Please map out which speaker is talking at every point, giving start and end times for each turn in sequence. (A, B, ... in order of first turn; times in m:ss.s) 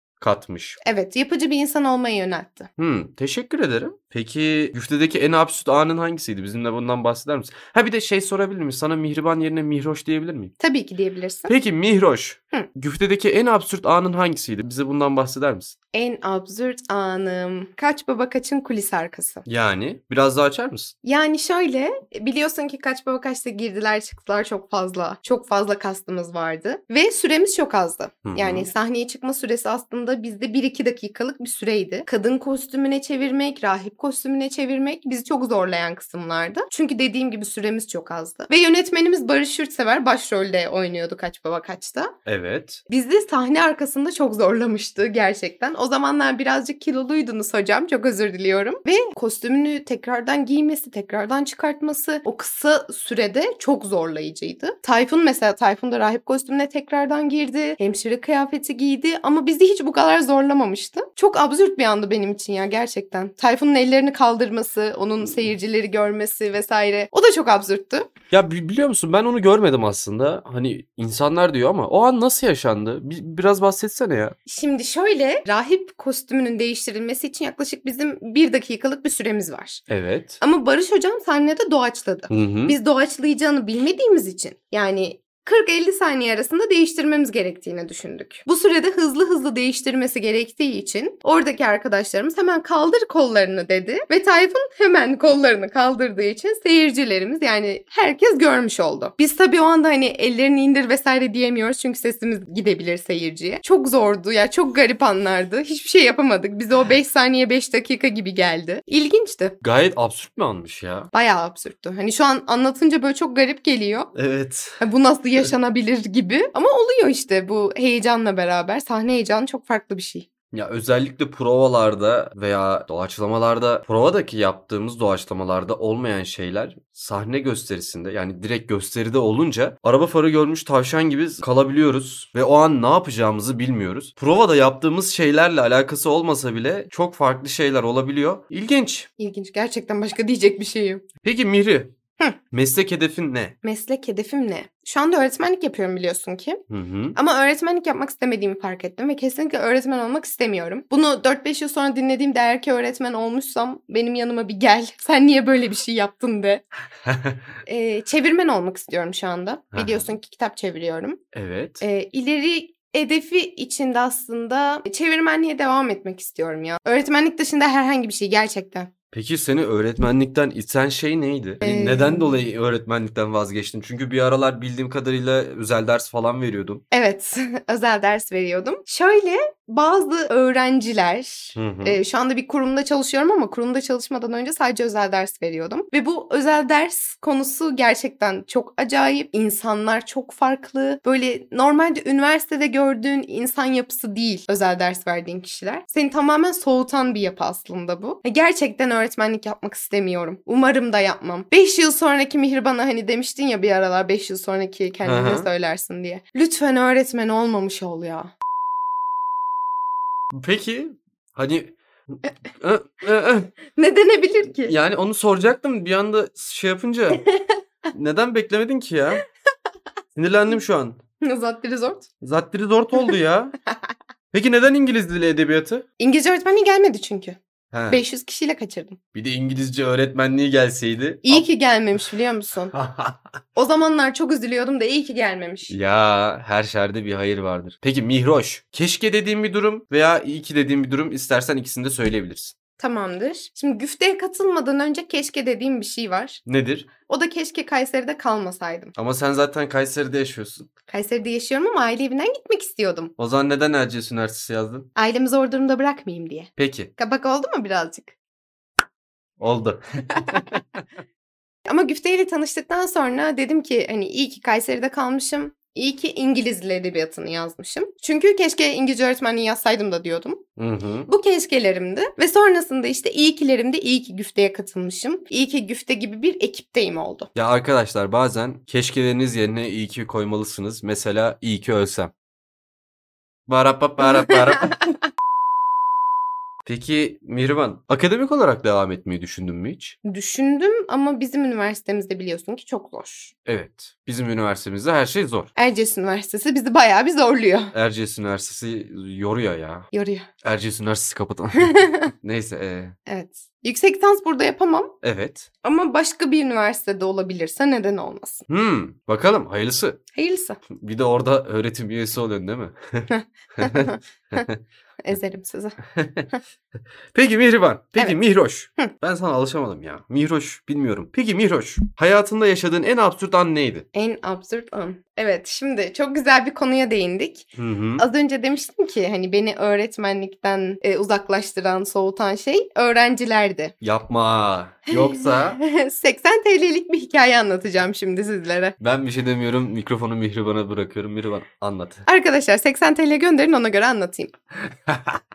0:00.2-0:00.8 A
0:00.8-0:02.7 B
0:02.8-0:10.5 A
0:10.6-0:11.5 B
0:11.5-0:15.8 A
0:15.9-0:19.4 B
0:19.4-0:20.9 A
0:21.0-0:42.1 B
0:28.2-0:28.7 A
0:42.3-0:42.8 A
0:42.9-1:08.1 B
1:08.3-1:14.4 A
1:14.5-1:19.8 B
1:19.9-1:20.4 A
1:20.4-1:49.6 B
1:22.3-1:22.8 A
1:49.6-1:51.1 A
1:51.1-1:54.1 B
1:54.1-1:54.8 A
1:54.8-2:00.3 B
2:00.5-2:19.1 A
2:19.2-2:21.0 B
2:21.2-2:21.9 A
2:22.5-2:23.5 A
2:23.6-2:26.6 B
2:26.7-2:27.2 A
2:27.2-2:36.6 B
2:37.1-2:37.4 A
2:37.7-2:41.2 B
2:39.7-2:40.1 A
2:41.3-2:41.8 A
2:41.8-2:48.9 B
2:49.1-2:56.8 A
2:51.6-2:52.4 B
2:56.9-3:28.3 B
3:01.6-3:02.0 A
3:25.0-3:25.5 A
3:30.3-3:33.5 A
3:33.8-3:34.8 B
3:34.7-3:37.2 A
3:37.2-3:37.6 B
3:37.9-3:39.2 A
3:40.2-3:41.0 A
3:41.2-3:42.1 B
3:42.2-3:43.6 A
3:44.3-3:45.8 A
3:46.0-3:47.4 B
3:47.7-3:48.0 A
3:47.9-3:49.0 B
3:49.1-3:51.5 A
3:51.2-3:52.7 B
3:52.7-3:53.2 A
3:53.6-3:55.7 B
3:55.7-4:02.5 A
4:02.8-4:06.4 B
4:06.5-4:06.9 A
4:07.1-4:09.0 B
4:09.0-4:10.7 A
4:10.9-4:13.1 B
4:13.2-4:14.9 A
4:15.0-4:18.1 B
4:16.6-4:16.9 A
4:19.4-4:20.8 A
4:21.7-4:30.4 B
4:30.6-4:31.1 A
4:31.1-4:37.3 B
4:37.4-4:42.1 A
4:43.5-4:44.8 A
4:46.7-4:50.0 A
4:50.0-4:53.3 B
4:53.4-4:55.5 A
4:55.6-4:57.7 B
4:57.7-4:59.9 A
4:59.9-5:00.3 B
5:00.4-5:03.0 A
5:01.6-5:02.0 B
5:03.1-5:04.9 B
5:05.0-5:05.5 A
5:05.6-5:08.5 B
5:08.5-5:10.0 A
5:10.2-5:10.6 B
5:10.8-5:13.1 A
5:13.1-5:14.4 B
5:13.6-5:14.6 A
5:15.0-5:15.8 B
5:16.0-5:16.3 A
5:17.1-5:23.9 A
5:23.9-5:33.7 B
5:27.6-5:28.0 A
5:33.8-5:35.6 A
5:34.9-5:38.8 B
5:38.8-5:42.1 A
5:42.1-5:44.3 B
5:44.9-5:45.1 A